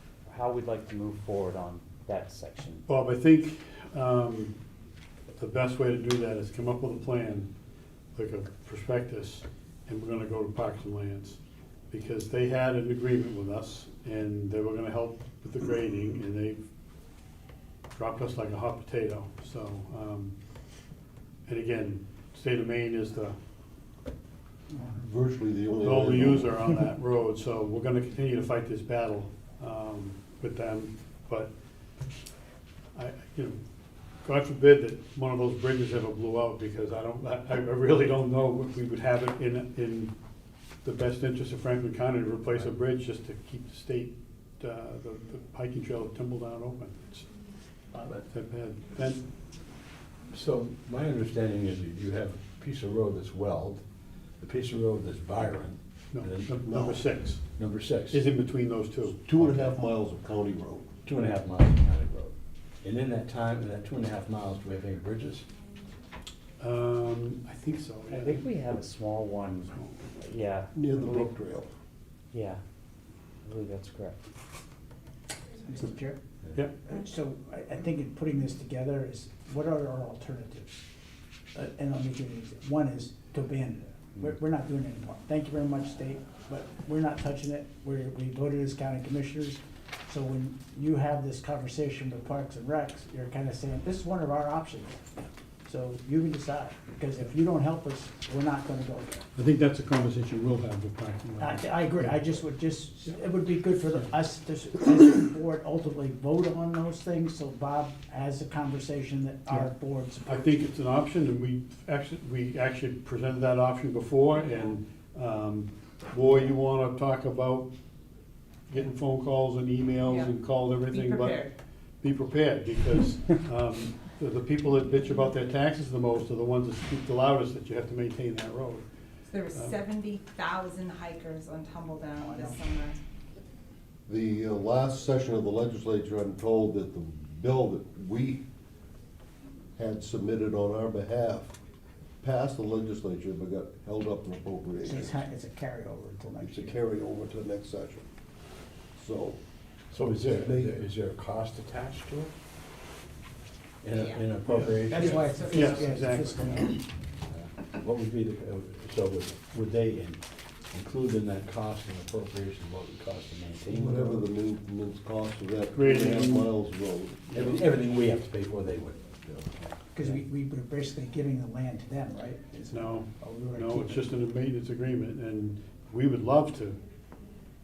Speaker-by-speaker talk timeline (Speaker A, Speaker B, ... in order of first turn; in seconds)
Speaker A: 0.3-2.9, 68.1-71.3, 72.3-72.6, 73.4-74.2
Speaker B: 2.9-4.5, 5.4-7.5, 8.2-11.4, 11.9-16.6, 17.9-20.3, 21.5-23.4, 25.8-31.5, 33.0-33.6, 34.2-40.1, 40.8-47.3, 48.3-49.2, 56.1-57.5, 58.1-59.2, 66.6-68.5, 76.5-76.8, 99.3-102.3, 110.3-117.7, 118.7-121.4, 122.0-128.9, 154.5-154.8, 155.4-156.8, 165.8-166.5, 167.3-167.6, 172.7-176.8
Speaker C: 24.7-26.7, 56.7-57.0, 59.2-61.0, 70.7-71.7, 134.1-138.4, 139.8-141.5, 142.2-145.2, 146.4-148.1, 149.0-149.4, 150.2-150.8, 163.7-167.5
Speaker D: 47.9-48.2, 75.7-76.2, 76.8-80.8, 81.5-95.0, 95.7-99.2, 101.4-110.6, 132.2-132.6, 144.8-146.8, 154.9-156.8, 169.9-174.1
Speaker E: 50.3-53.9, 54.4-56.9, 57.5-58.2, 59.4-59.7, 61.0-65.5, 149.9-152.3, 153.8-155.7, 157.3-164.3, 167.3-169.7
Speaker F: 114.4-114.8, 120.1-120.3, 120.9-121.5, 129.3-133.0, 153.9-154.3, 155.0-155.8